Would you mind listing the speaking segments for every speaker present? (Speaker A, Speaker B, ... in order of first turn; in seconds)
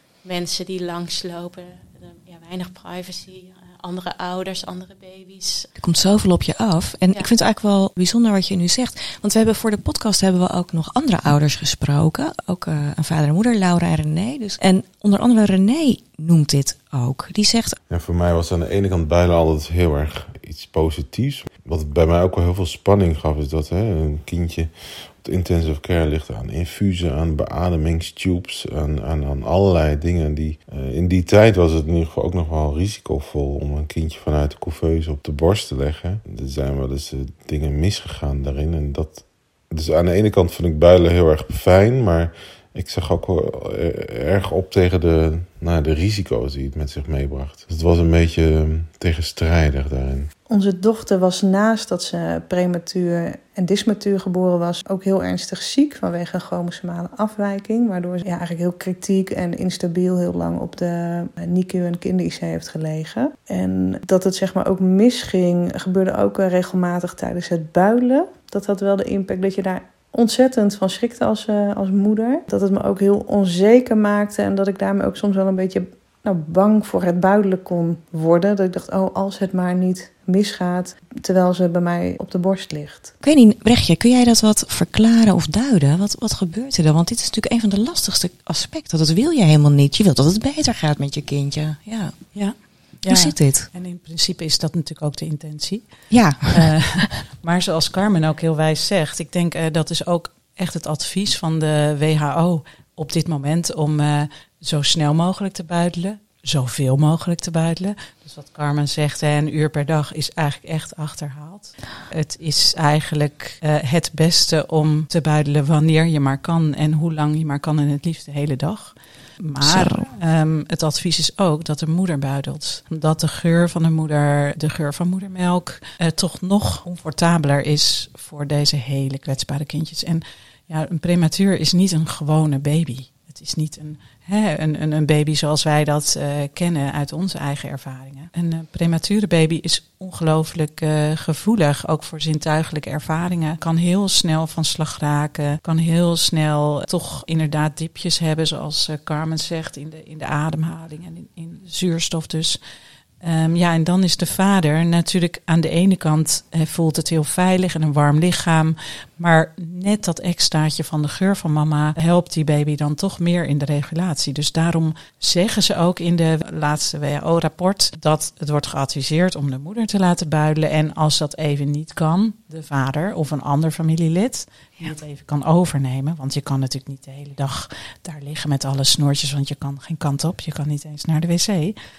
Speaker A: 0.2-5.7
Speaker B: 5.8-17.8, 83.2-92.2, 93.0-93.7, 96.1-97.0, 119.6-120.1
Speaker C: 17.9-50.3
Speaker D: 50.5-83.1
Speaker E: 92.3-95.8, 96.5-152.6, 153.2-181.7